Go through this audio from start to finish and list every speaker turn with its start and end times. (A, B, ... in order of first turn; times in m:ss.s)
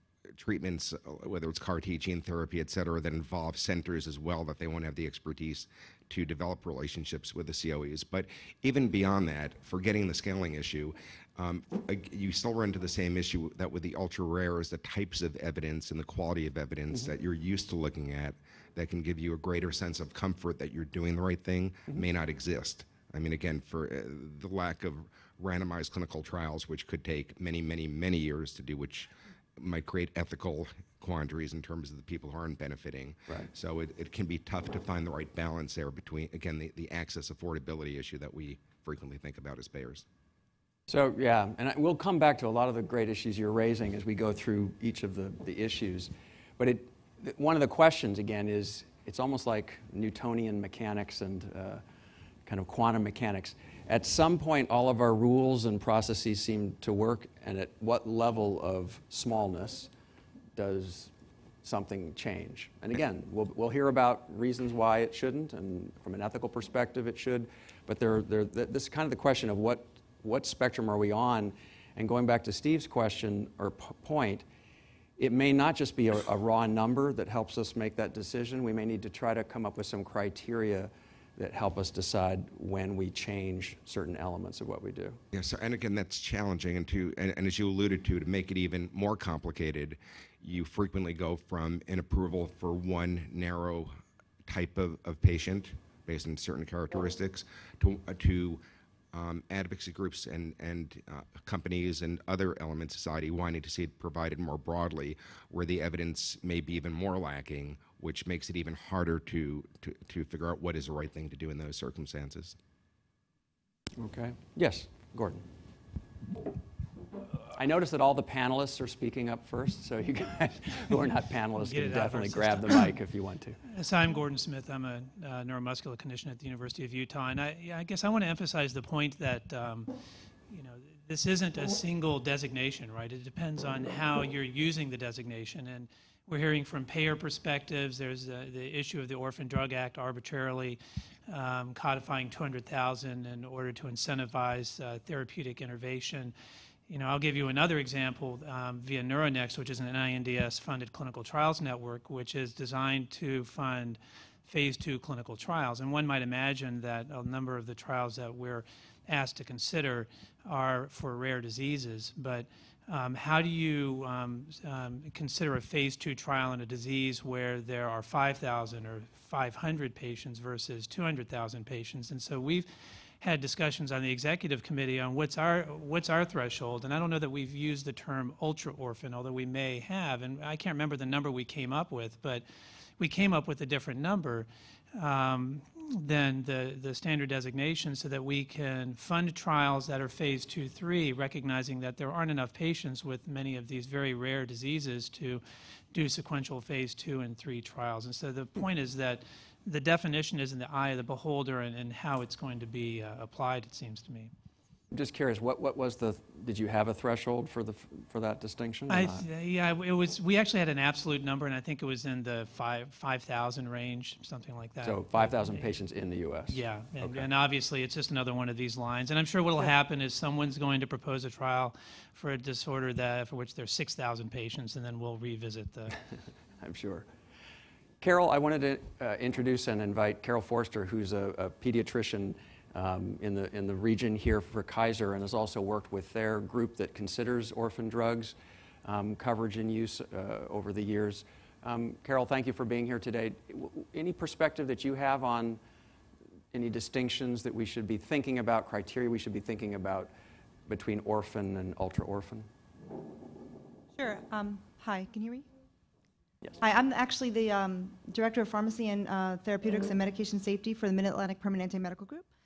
0:00.3-0:40.0 A
0:40.9-0:51.8 B
0:52.4-0:59.9 B
1:00.6-1:01.1 B
1:01.6-1:14.4 B
1:15.2-1:25.2 B
1:25.3-1:38.6 A
1:39.1-1:52.6 A
1:54.0-1:55.4 B
1:57.5-2:03.6 B
2:01.6-2:02.9 C
2:03.7-2:09.9 C
2:10.5-2:26.4 C
2:26.9-2:52.7 C
2:53.2-3:02.4 C
3:03.0-3:24.3 C
3:24.9-3:29.2 B
3:28.9-3:35.7 C
3:34.8-3:37.3 B
3:36.5-3:46.0 C
3:46.6-3:47.1 B
3:48.0-4:05.6 B
4:06.5-4:10.1 B
4:10.7-4:12.5 B
4:13.9-4:15.4 D
4:16.6-4:22.2 D